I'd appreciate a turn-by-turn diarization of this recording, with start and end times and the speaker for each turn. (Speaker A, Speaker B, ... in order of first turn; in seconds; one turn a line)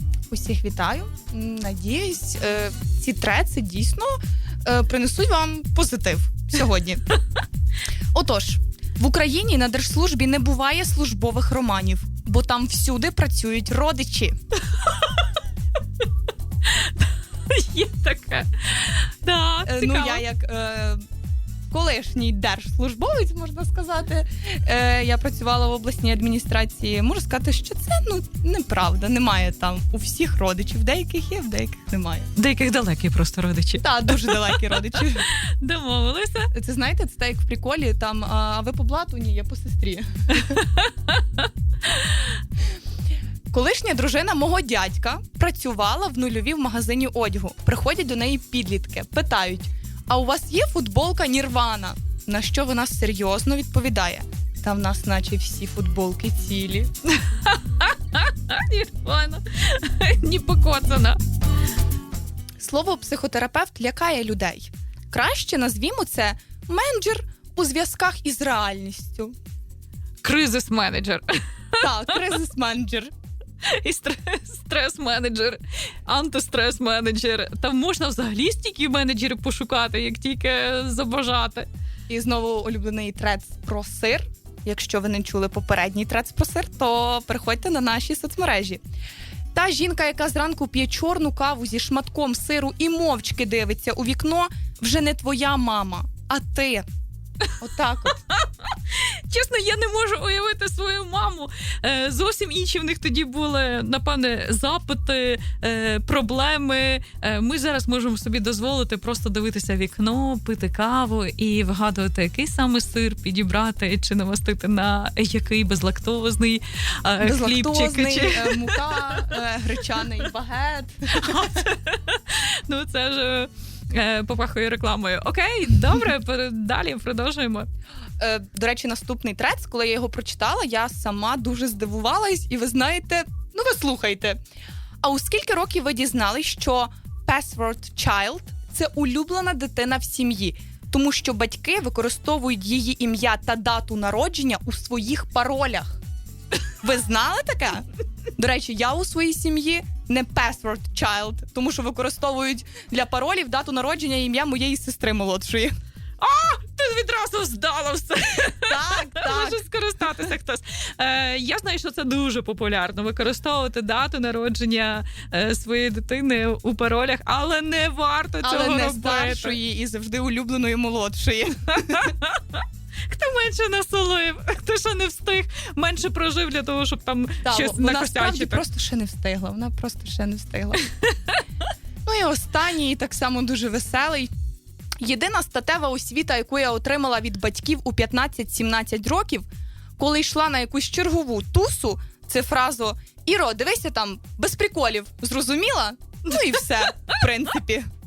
Speaker A: 0.3-7.0
Speaker A: 8.1-14.3
Speaker B: 14.8-15.2
Speaker B: 16.6-20.2
Speaker A: 19.6-21.0
Speaker A: 21.7-32.3
Speaker B: 32.4-36.5
Speaker A: 33.8-35.2
Speaker A: 36.5-40.6
Speaker B: 40.4-41.4
Speaker B: 41.9-42.2
Speaker A: 43.5-56.9
Speaker B: 57.2-61.2
Speaker A: 62.6-69.3
Speaker B: 70.2-72.3
Speaker A: 71.8-73.1
Speaker B: 73.6-81.7
Speaker A: 82.1-88.8
Speaker A: 89.5-96.8
Speaker A: 97.6-98.2
Speaker B: 98.1-119.3
Speaker A: 117.2-121.6
Speaker B: 121.2-127.7
Speaker A: 128.2-134.4
Speaker A: 135.0-146.0
Speaker A: 146.8-147.8
Speaker A: 148.4-155.7
Speaker B: 156.2-169.6
Speaker A: 158.6-159.6
Speaker A: 168.4-172.1
Speaker B: 171.8-178.6
Speaker A: 177.4-180.8
Speaker B: 181.0-181.4
Speaker A: 182.0-184.3
Speaker A: 185.0-189.4
Speaker A: 190.0-197.9